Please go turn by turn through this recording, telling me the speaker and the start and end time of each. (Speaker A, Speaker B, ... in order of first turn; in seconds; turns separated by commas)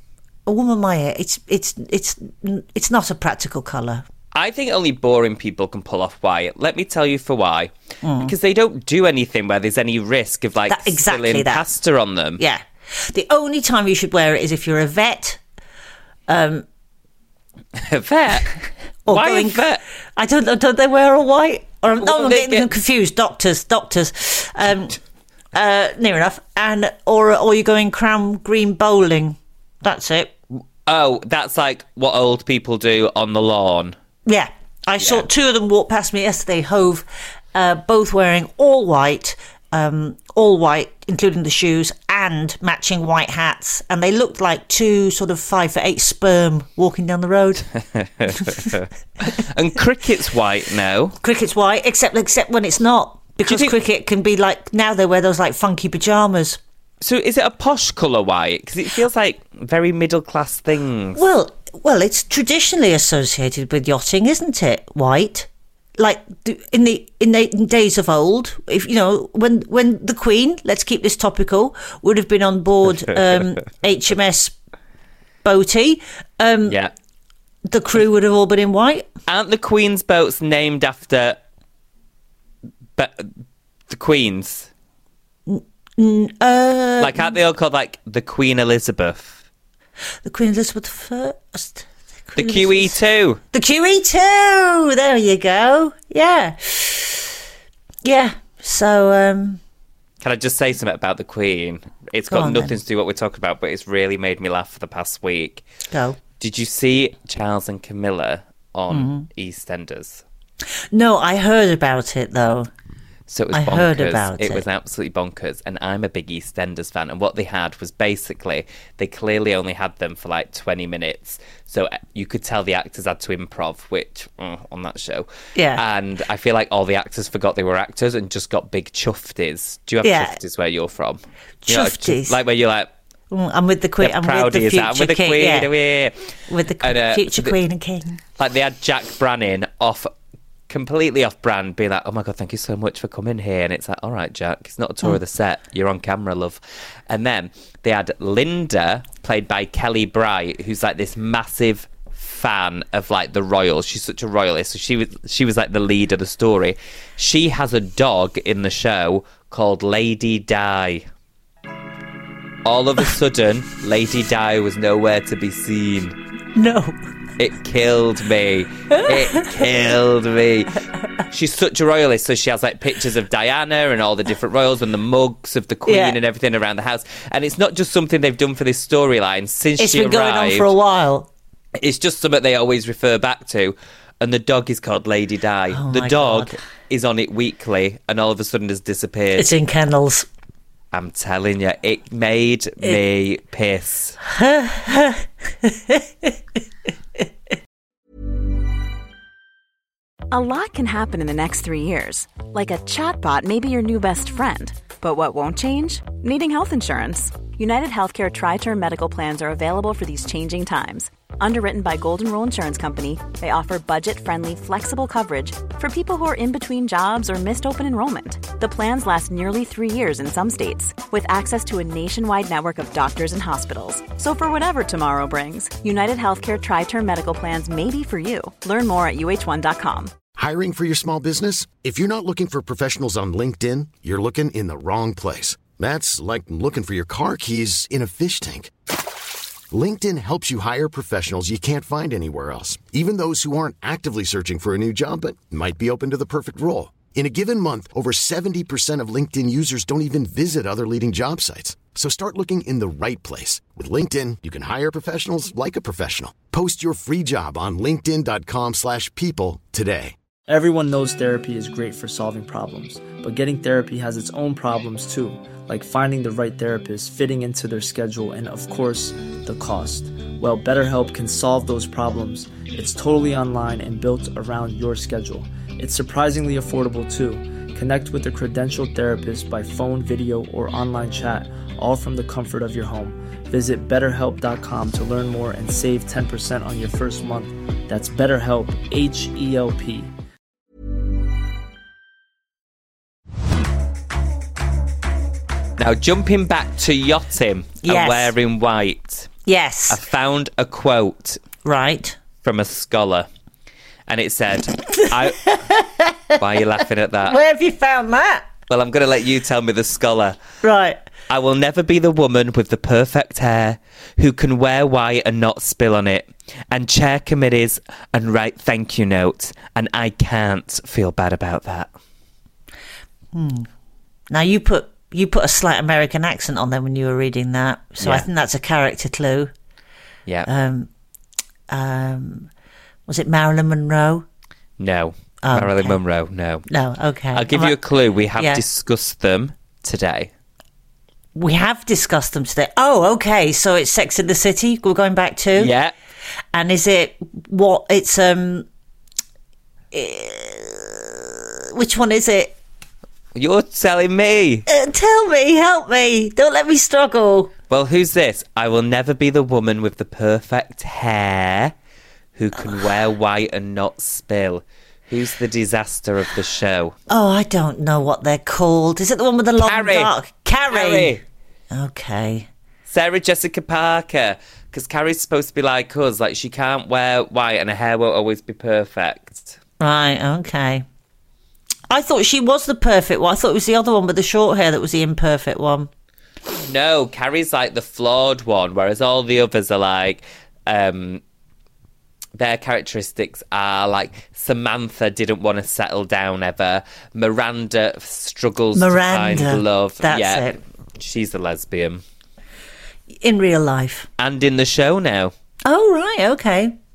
Speaker A: 0.5-4.0, Speaker B: 4.3-12.4, Speaker A: 8.0-8.3, Speaker A: 10.7-11.6, Speaker A: 12.4-15.4, Speaker A: 16.3-16.6, Speaker B: 17.8-18.5, Speaker A: 19.1-19.6, Speaker B: 19.1-19.8, Speaker A: 20.2-25.0, Speaker B: 22.0-22.7, Speaker A: 25.5-30.3, Speaker B: 30.9-34.0, Speaker A: 34.3-47.7, Speaker B: 48.0-51.2, Speaker A: 48.4-48.7, Speaker A: 51.2-56.6, Speaker B: 53.5-53.7, Speaker B: 57.0-61.2, Speaker A: 61.2-74.5, Speaker A: 75.4-76.8, Speaker B: 76.7-76.9, Speaker A: 77.7-79.1, Speaker B: 79.3-81.4, Speaker B: 83.0-83.3, Speaker B: 83.9-84.7, Speaker A: 85.5-87.3, Speaker B: 87.0-89.4, Speaker A: 90.2-93.0, Speaker B: 92.4-93.4, Speaker A: 93.5-97.3, Speaker A: 98.0-99.6, Speaker B: 100.2-105.6, Speaker A: 102.3-102.8, Speaker A: 105.9-106.2, Speaker B: 106.4-110.2, Speaker A: 108.9-109.3, Speaker A: 110.9-112.7, Speaker B: 113.3-132.9, Speaker A: 113.5-114.6, Speaker A: 125.5-125.8, Speaker A: 130.0-130.3, Speaker A: 131.7-132.4, Speaker A: 133.3-135.7, Speaker B: 134.0-136.2, Speaker A: 136.5-138.2, Speaker B: 136.8-137.6, Speaker B: 138.4-140.1, Speaker B: 140.7-161.1, Speaker B: 162.7-166.2, Speaker A: 166.6-167.0, Speaker B: 167.4-180.7, Speaker A: 168.9-169.6, Speaker A: 175.9-176.2, Speaker A: 179.8-181.3, Speaker B: 181.8-189.5, Speaker A: 185.7-186.6, Speaker A: 189.4-190.3, Speaker B: 190.9-194.2, Speaker A: 194.3-196.3, Speaker C: 200.3-230.1, Speaker D: 230.3-238.7, Speaker D: 239.7-260.1, Speaker E: 260.5-290.1, Speaker B: 295.8-299.3, Speaker A: 297.8-298.3, Speaker A: 299.5-300.0, Speaker B: 299.9-301.4, Speaker A: 301.6-302.2, Speaker B: 302.4-303.3, Speaker B: 304.1-305.6, Speaker A: 304.9-306.4, Speaker B: 306.4-307.4, Speaker A: 307.3-308.4, Speaker B: 308.7-310.4, Speaker A: 310.6-311.0, Speaker B: 311.3-321.9, Speaker A: 323.3-323.7, Speaker A: 324.3-329.5, Speaker B: 328.0-328.3, Speaker A: 330.5-330.9, Speaker A: 331.7-332.5, Speaker A: 333.1-334.2, Speaker B: 334.8-336.7, Speaker A: 335.4-336.0, Speaker A: 336.7-337.8, Speaker B: 337.3-340.3, Speaker A: 338.4-338.6, Speaker A: 341.4-345.7, Speaker B: 345.6-345.9, Speaker A: 346.5-348.7, Speaker A: 349.9-352.5, Speaker B: 353.4-354.7, Speaker A: 354.7-357.5, Speaker B: 357.7-361.7, Speaker B: 362.4-366.9, Speaker A: 367.1-372.5, Speaker B: 369.6-370.1, Speaker B: 370.7-371.2, Speaker B: 372.9-379.6, Speaker A: 379.8-380.9, Speaker A: 381.9-385.9, Speaker B: 386.5-391.2, Speaker B: 392.4-402.0, Speaker A: 398.8-400.6, Speaker A: 403.2-404.1, Speaker B: 404.2-405.3, Speaker A: 405.6-406.8